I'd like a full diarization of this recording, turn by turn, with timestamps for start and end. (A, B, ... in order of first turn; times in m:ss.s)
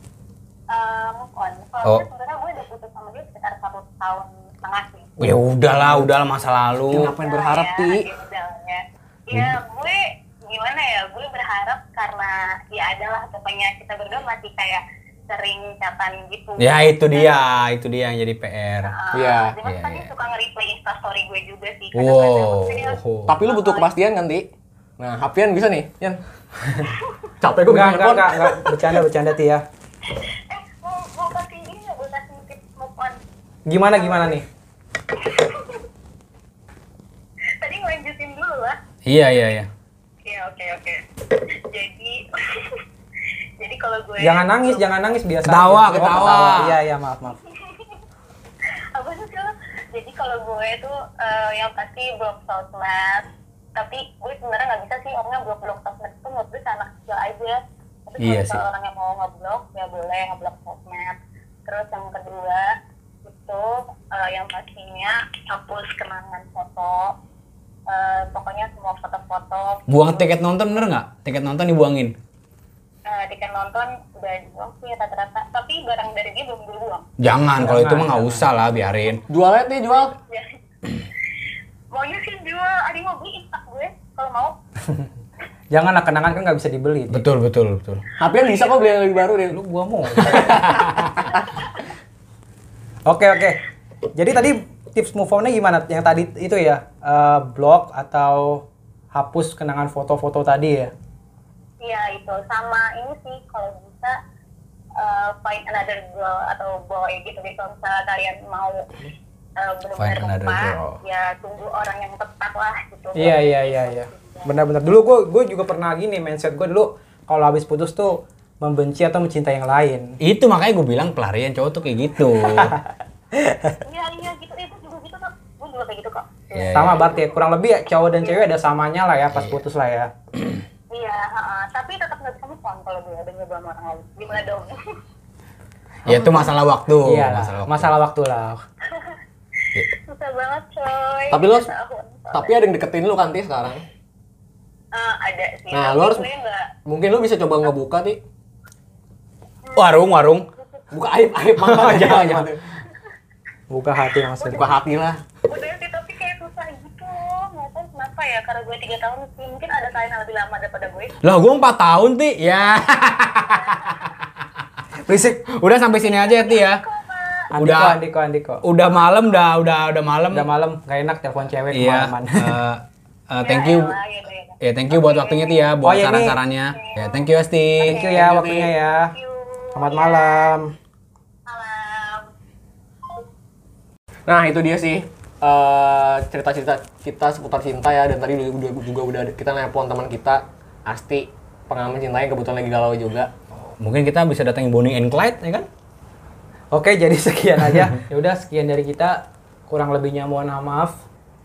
0:00.7-0:05.1 A
0:05.2-0:07.1 B
0:05.7-0:06.1 C
0:06.9-0:08.1 C
0:06.9-0:17.6 A
0:09.3-0:09.6 B
0:16.6-0:19.0 B
0:18.8-0:23.9 A
0:19.1-0:19.6 C
0:19.6-0:20.1 B
0:21.9-0:23.4 B
0:23.3-0:24.5 C
0:25.0-0:26.2 C
0:27.4-0:28.8 C
0:27.7-0:29.6 D
0:30.1-0:33.2 A
0:33.7-0:34.4 D
0:34.0-0:34.4 A
0:35.1-0:35.8 A
0:37.6-0:38.8 A
0:39.1-0:39.7 B
0:40.2-0:42.8 A
0:43.6-0:45.1 A
0:44.2-0:47.4 D
0:45.4-0:46.8 B
0:47.5-0:48.0 A
0:49.0-1:02.7 A
0:58.2-0:58.6 B
1:03.2-1:07.2 A
1:07.9-1:10.3 A
1:09.9-1:12.2 B
1:13.1-1:17.1 A
1:17.2-1:19.2 B
1:17.6-1:18.5 D
1:19.3-1:20.1 C
1:20.3-1:20.6 A
1:21.9-1:24.6 A
1:25.7-1:27.2 D
1:27.1-1:28.0 B
1:28.2-1:29.6 C
1:28.4-1:28.9 A
1:29.5-1:30.8 D
1:30.2-1:31.2 B
1:30.2-1:31.5 C
1:31.3-1:31.7 A
1:33.1-1:33.6 D
1:34.2-1:40.9 D
1:41.8-1:44.2 A
1:45.0-1:48.9 A
1:49.6-1:54.5 A
1:50.0-1:51.0 B
1:53.2-2:00.2 D
2:00.2-2:02.8 B
2:03.4-2:03.8 D
2:03.8-2:07.1 A
2:06.5-2:07.0 B
2:06.7-2:10.1 D
2:09.3-2:09.6 B
2:10.9-2:15.0 A
2:16.1-2:18.6 D
2:16.1-2:17.9 B
2:18.9-2:19.2 A
2:19.8-2:22.6 A
2:21.3-2:21.7 C
2:22.3-2:23.8 C
2:24.9-2:26.7 A
2:25.7-2:26.3 C
2:26.9-2:28.2 C
2:29.6-2:30.9 A
2:29.8-2:30.5 B
2:30.9-2:32.6 C
2:31.6-2:32.5 D
2:33.7-2:34.7 D
2:34.4-2:35.2 C
2:35.5-2:41.2 A
2:41.2-2:44.2 B
2:43.2-2:44.2 A
2:45.1-2:45.4 D
2:45.4-2:46.8 B
2:46.0-2:47.5 A
2:47.5-2:48.6 D
2:47.6-2:48.0 B
2:48.6-2:50.5 B
2:50.3-2:52.6 D
2:51.7-2:54.0 B
2:53.4-2:55.7 A
2:54.6-2:58.0 B
2:55.8-2:56.4 D
2:56.7-2:57.2 A
2:57.8-2:59.2 D
2:57.9-2:58.2 A
2:57.9-2:58.7 C
2:59.1-3:00.5 A
2:59.8-3:00.7 D
3:01.5-3:02.3 A
3:04.3-3:13.3 C
3:13.8-3:15.7 B
3:16.7-3:21.0 D